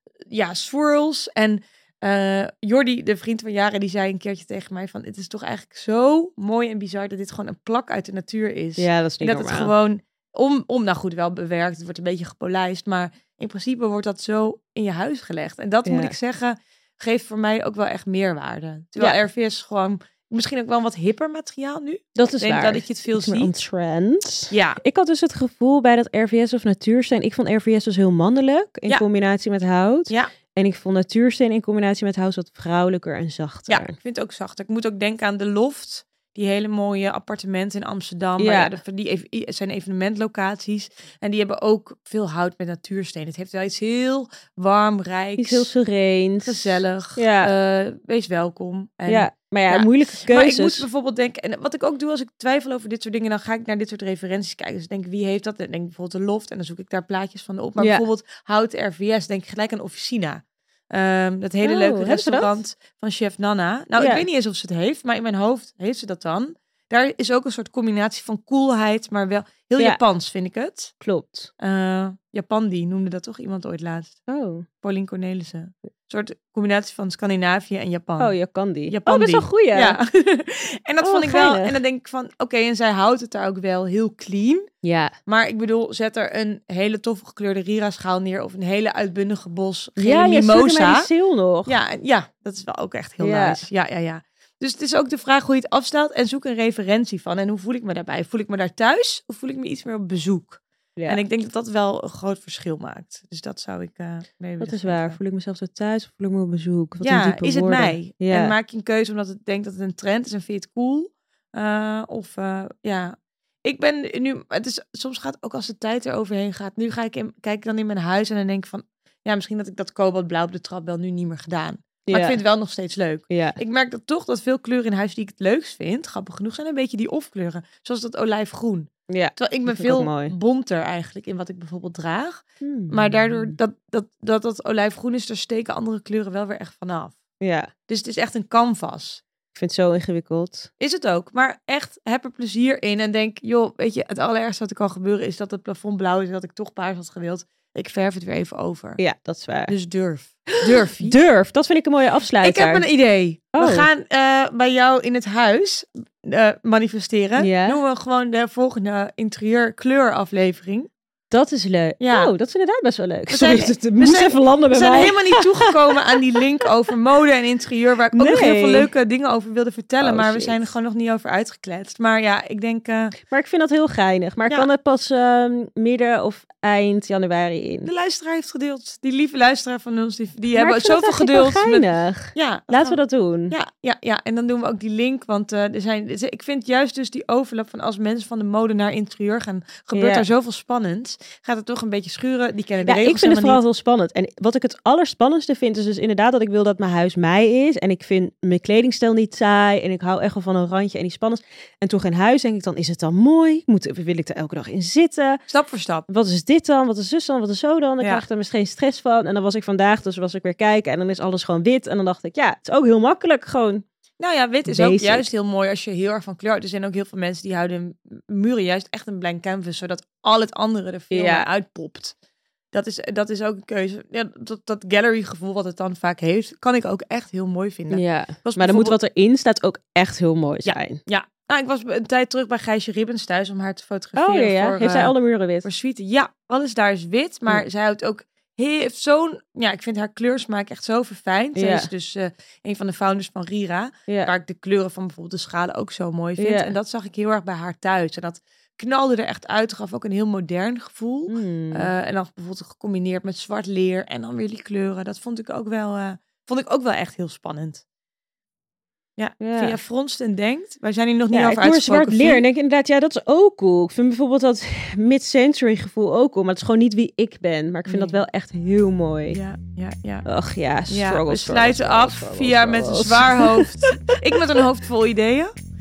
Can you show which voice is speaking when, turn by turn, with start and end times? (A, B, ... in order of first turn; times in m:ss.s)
0:00.2-0:23.5 A
0:08.8-0:09.7 B
0:15.8-0:16.1 B
0:22.2-0:34.0 B
0:24.5-0:24.8 A
0:33.7-0:45.7 A
0:38.4-0:38.8 B
0:45.4-0:47.5 B
0:46.4-1:10.9 A
0:49.1-0:50.9 B
0:57.8-0:58.0 B
1:01.6-1:02.5 B
1:04.0-1:04.2 B
1:11.0-1:11.5 B
1:11.6-1:14.2 A
1:14.3-1:14.7 B
1:14.8-1:18.3 A
1:18.2-1:20.0 B
1:18.9-1:24.7 A
1:21.0-1:21.8 B
1:24.8-1:25.2 B
1:25.2-1:31.1 A
1:30.0-1:31.7 B
1:31.6-1:45.2 A
1:33.2-1:33.6 B
1:41.0-1:41.2 B
1:44.6-1:48.6 B
1:47.0-2:17.2 A
2:02.1-2:02.4 B
2:03.3-2:03.6 B
2:09.1-2:10.3 B
2:12.6-2:13.6 B
2:17.4-2:17.7 B
2:17.9-2:19.2 A
2:19.5-2:20.7 B
2:20.8-2:29.0 A
2:29.0-2:29.7 B
2:29.7-2:31.2 A
2:30.5-2:32.8 B
2:32.4-2:40.9 A
2:33.5-2:33.9 B
2:37.4-2:37.8 B
2:41.3-2:45.7 B
2:42.0-2:42.3 A
2:43.3-2:53.2 A
2:48.2-2:48.9 B
2:50.0-2:50.7 B
2:53.3-2:57.9 B
2:57.8-3:13.6 A
3:00.6-3:03.6 B
3:09.9-3:10.3 B
3:12.8-3:25.4 B
3:25.5-3:26.1 A
3:26.1-3:33.8 B
3:34.2-3:42.1 A
3:34.6-3:35.3 B
3:41.1-3:41.5 B
3:42.7-3:49.0 A
3:47.9-3:51.0 B
3:50.6-4:17.8 A
3:54.2-3:55.7 B
4:01.5-4:01.9 B
4:06.4-4:06.7 B
4:11.3-4:11.9 B
4:19.2-4:22.4 A
4:19.4-4:19.8 B
4:21.3-4:29.4 B
4:27.8-4:28.2 A
4:29.3-4:30.2 A
4:30.2-4:34.5 B
4:30.9-4:35.5 A